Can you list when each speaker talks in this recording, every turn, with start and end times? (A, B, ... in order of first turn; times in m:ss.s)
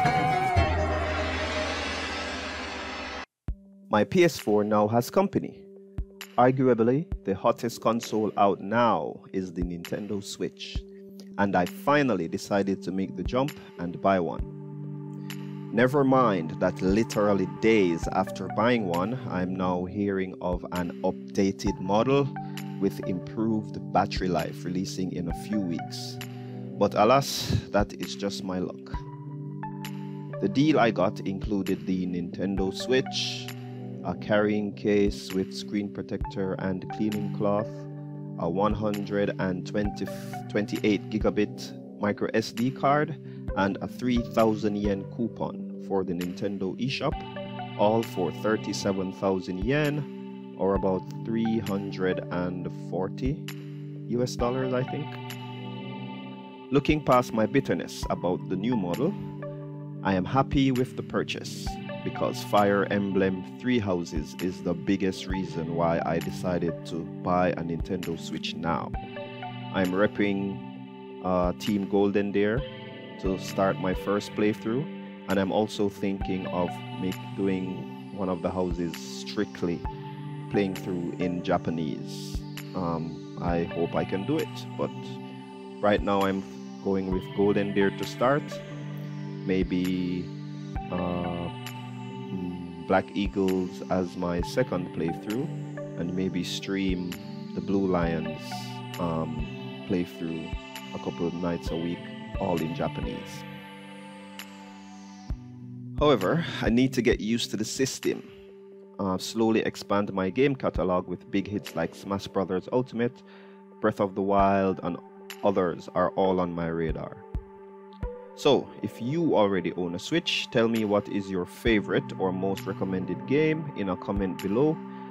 0:03.9-0:05.6 A
0:06.4-0:10.8 A
0:11.4-0:14.5 A
0:15.7-0:26.2 A
0:26.8-0:29.0 A
0:30.4-0:33.5 A
0:34.0-0:37.9 A
0:38.4-0:47.3 A
0:47.8-0:53.5 A
0:54.1-0:55.2 A
0:56.7-0:59.2 A
1:00.0-1:09.0 A
1:09.7-1:10.6 A
1:11.2-1:19.9 A
1:20.5-1:25.2 A
1:25.8-1:28.6 A
1:29.4-1:30.3 A
1:30.9-1:31.5 A
1:32.3-1:43.5 A
1:46.0-1:48.3 A
1:49.0-1:53.2 A
1:53.8-1:57.3 A
1:58.4-2:04.8 A